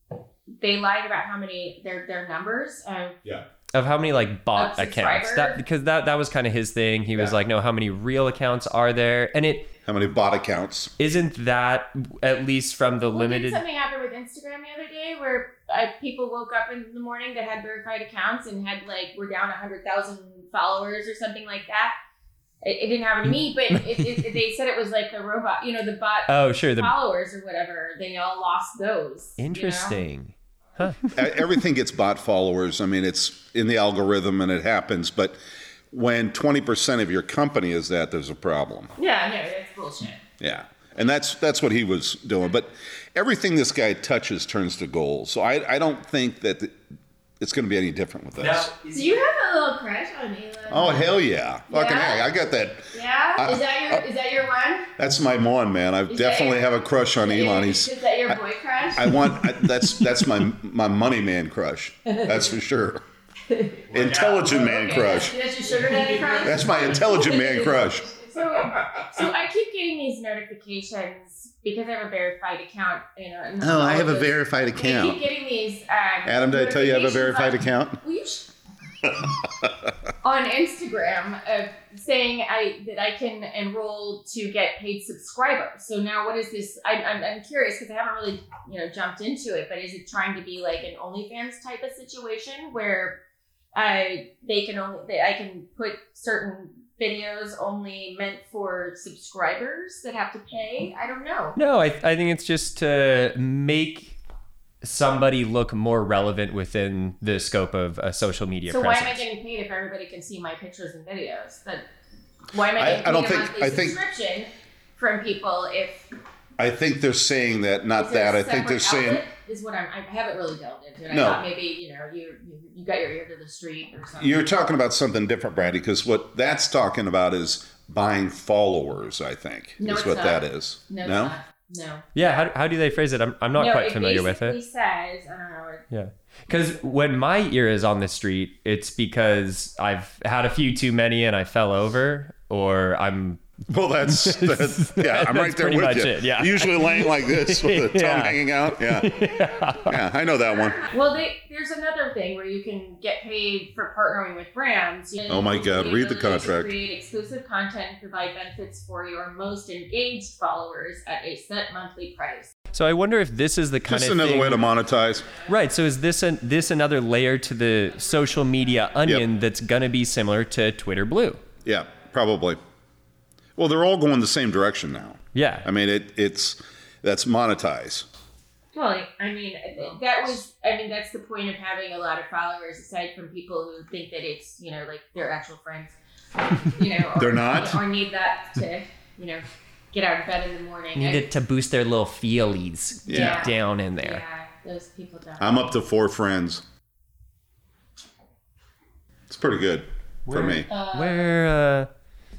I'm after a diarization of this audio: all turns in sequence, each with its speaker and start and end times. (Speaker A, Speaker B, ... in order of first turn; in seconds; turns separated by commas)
Speaker A: 0.6-3.2, Speaker B: 3.8-9.7, Speaker A: 4.5-5.6, Speaker C: 9.9-10.9, Speaker B: 11.0-13.6, Speaker A: 13.1-21.9, Speaker A: 22.6-30.0, Speaker B: 23.7-24.1, Speaker B: 26.3-26.9, Speaker B: 29.4-31.0, Speaker C: 31.1-35.4, Speaker C: 35.9-38.9, Speaker A: 39.0-40.2, Speaker C: 40.4-46.8, Speaker C: 47.4-48.7, Speaker B: 48.4-49.2, Speaker A: 48.9-51.1, Speaker C: 50.7-54.0, Speaker A: 51.7-52.3, Speaker A: 52.9-54.9, Speaker C: 55.0-58.4, Speaker A: 56.1-59.4, Speaker C: 58.9-63.0, Speaker A: 62.1-62.4, Speaker A: 63.5-63.9, Speaker B: 63.9-64.8, Speaker C: 63.9-65.3, Speaker A: 64.5-78.5, Speaker B: 65.7-66.8, Speaker C: 66.4-68.1, Speaker C: 68.7-69.0, Speaker C: 73.6-75.2, Speaker C: 76.2-78.0, Speaker C: 79.0-79.9, Speaker A: 80.2-93.2, Speaker A: 93.8-101.6, Speaker B: 101.5-104.2, Speaker B: 104.8-109.3, Speaker A: 108.7-111.9, Speaker A: 112.5-116.1, Speaker C: 112.7-114.0, Speaker C: 116.6-119.2, Speaker A: 118.0-124.4, Speaker C: 121.1-121.4, Speaker C: 124.2-131.4, Speaker A: 129.8-132.4, Speaker B: 132.2-134.6, Speaker A: 133.6-135.9, Speaker B: 135.9-143.4, Speaker C: 143.7-149.2, Speaker B: 144.1-150.0, Speaker C: 149.9-150.9, Speaker A: 150.8-162.5, Speaker C: 155.3-156.7, Speaker B: 162.7-164.7, Speaker C: 163.9-165.3, Speaker B: 165.4-171.4, Speaker C: 171.7-172.6, Speaker C: 173.6-178.1, Speaker B: 175.3-175.7, Speaker A: 178.7-186.0, Speaker A: 186.6-191.3, Speaker C: 187.2-187.8, Speaker B: 190.9-194.2, Speaker C: 193.1-193.5, Speaker A: 193.1-195.8, Speaker C: 195.4-196.6, Speaker C: 199.3-200.7, Speaker B: 200.3-201.9, Speaker A: 200.7-201.3